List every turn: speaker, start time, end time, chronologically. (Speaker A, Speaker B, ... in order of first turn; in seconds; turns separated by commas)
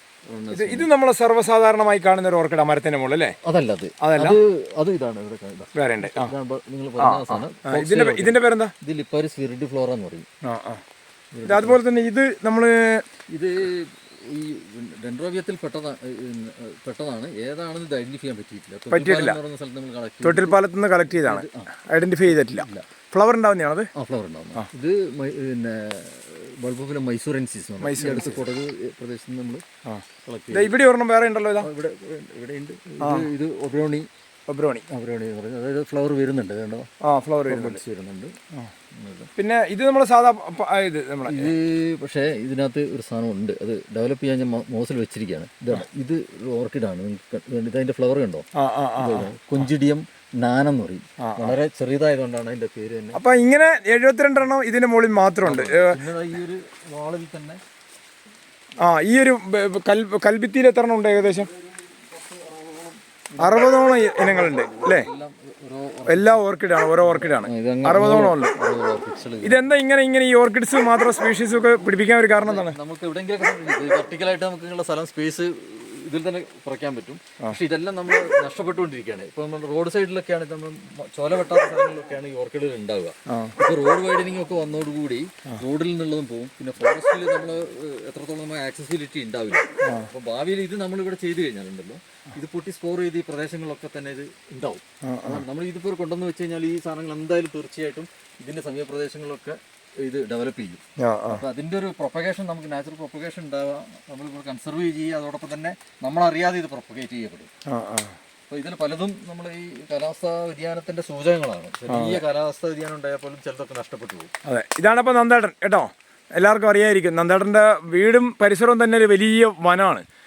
Speaker A: 0.3-0.9, Speaker B: 0.5-3.4, Speaker A: 3.5-10.3, Speaker B: 4.0-4.4, Speaker B: 5.8-6.3, Speaker B: 7.0-8.7, Speaker B: 10.4-10.8, Speaker A: 11.3-11.8, Speaker B: 11.4-13.0, Speaker A: 13.3-21.7, Speaker B: 18.9-19.4, Speaker B: 20.2-23.9, Speaker A: 22.3-22.9, Speaker A: 24.0-29.6, Speaker B: 27.8-28.5, Speaker B: 29.9-31.7, Speaker A: 30.2-30.8, Speaker A: 31.6-34.1, Speaker B: 33.0-33.3, Speaker B: 34.5-34.8, Speaker A: 34.9-36.9, Speaker B: 37.0-37.8, Speaker A: 37.5-38.4, Speaker A: 39.0-39.3, Speaker B: 39.4-41.5, Speaker A: 41.3-48.5, Speaker B: 48.5-49.3, Speaker A: 49.0-53.2, Speaker B: 51.2-51.6, Speaker B: 53.1-56.0, Speaker A: 55.4-57.6, Speaker B: 58.8-61.5, Speaker A: 61.5-66.5, Speaker B: 63.4-65.1, Speaker B: 66.1-68.5, Speaker A: 67.0-69.6, Speaker B: 69.4-72.8, Speaker A: 72.4-107.5, Speaker B: 89.8-90.1, Speaker B: 95.0-95.5, Speaker B: 101.0-101.4, Speaker B: 107.7-108.2, Speaker A: 108.5-114.3, Speaker B: 111.9-112.2, Speaker B: 114.5-120.0